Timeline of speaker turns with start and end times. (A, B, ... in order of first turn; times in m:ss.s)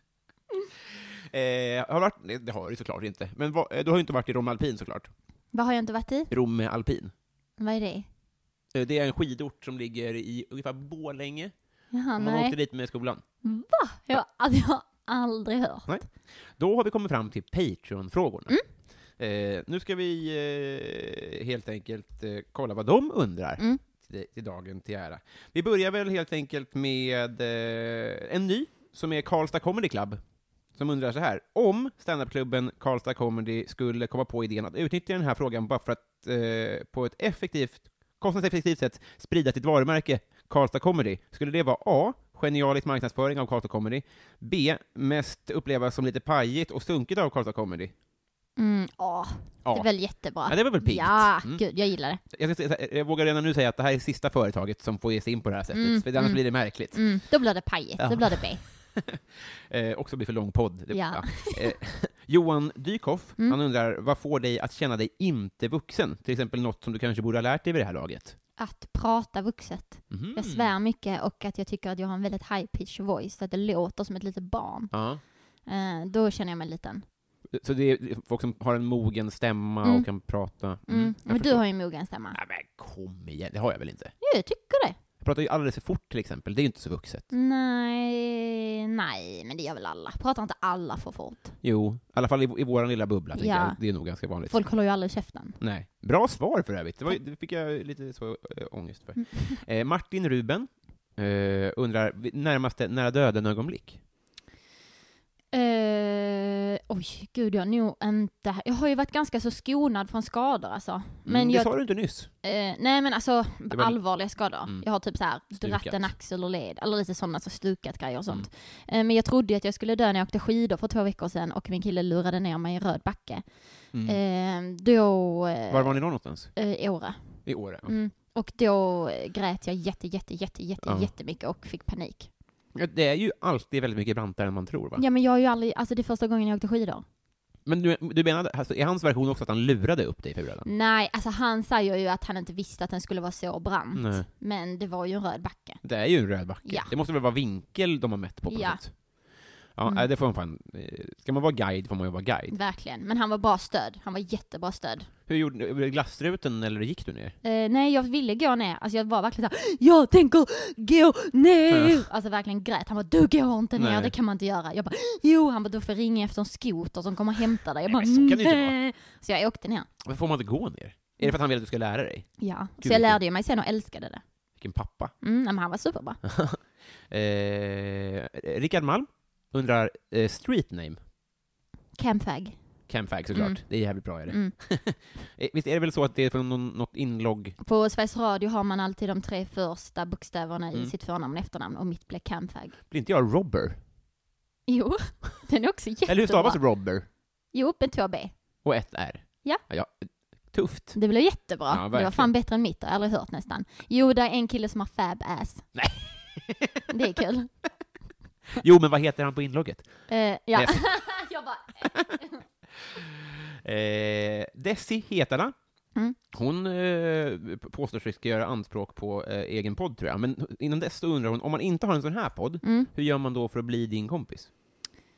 0:01.3-0:05.1 A
0:05.5-0:06.3 B
0:06.3-0:07.1 A
0:07.6-0:08.1 B
0:08.7-0:11.5 A
0:11.9-0:12.6 B
0:12.2-0:13.2 A
0:13.4-0:16.0 B
0:15.9-0:18.6 A
0:19.2-0:30.2 A
0:30.7-0:47.9 A
0:48.6-0:52.2 B
0:49.6-0:51.6 A
0:52.3-0:57.3 A
0:55.7-0:58.6 B
0:58.0-1:08.4 A
1:00.9-1:01.8 B
1:08.6-1:15.0 B
1:10.1-1:10.7 A
1:14.9-1:15.2 A
1:15.6-1:17.0 B
1:17.5-1:21.7 A
1:19.8-1:20.1 B
1:20.9-1:22.4 B
1:22.3-1:24.1 A
1:24.2-1:25.0 B
1:25.2-1:27.3 A
1:27.3-1:31.6 B
1:31.6-1:34.6 A
1:33.4-1:35.6 B
1:35.6-1:44.0 A
1:39.2-1:39.6 B
1:45.5-2:12.3 B
1:51.2-1:52.3 A
1:53.7-1:56.1 A
2:03.9-2:04.2 A
2:05.7-2:06.6 A
2:07.4-2:08.0 A
2:10.8-2:11.1 A
2:12.7-2:15.0 A
2:15.0-2:17.0 B
2:17.7-2:20.7 A
2:20.7-2:25.8 B
2:24.0-2:24.3 A
2:25.8-2:29.0 A
2:26.6-2:26.9 B
2:28.5-2:29.0 B
2:29.7-2:32.6 A
2:32.5-2:35.1 B
2:35.3-2:37.4 A
2:37.4-2:49.9 B
2:41.7-2:42.1 A
2:43.8-2:44.1 A
2:47.9-2:48.8 A
2:50.0-2:53.2 A
2:52.4-2:54.2 B
2:54.6-2:55.1 A
2:55.2-2:56.2 B
2:56.2-3:01.0 A
3:01.9-3:02.6 B
3:02.9-3:07.6 A
3:03.3-3:04.6 B
3:07.6-3:12.8 B
3:12.9-3:13.8 A
3:14.7-3:16.6 B
3:16.1-3:17.1 A
3:17.5-3:18.3 B
3:18.6-3:21.0 A
3:20.9-3:25.7 B
3:21.7-3:22.3 A
3:25.8-3:26.8 A
3:26.9-3:27.5 B
3:28.6-3:31.2 A
3:30.1-3:32.4 B
3:32.8-3:35.6 A
3:36.3-3:44.5 A
3:42.6-3:42.9 B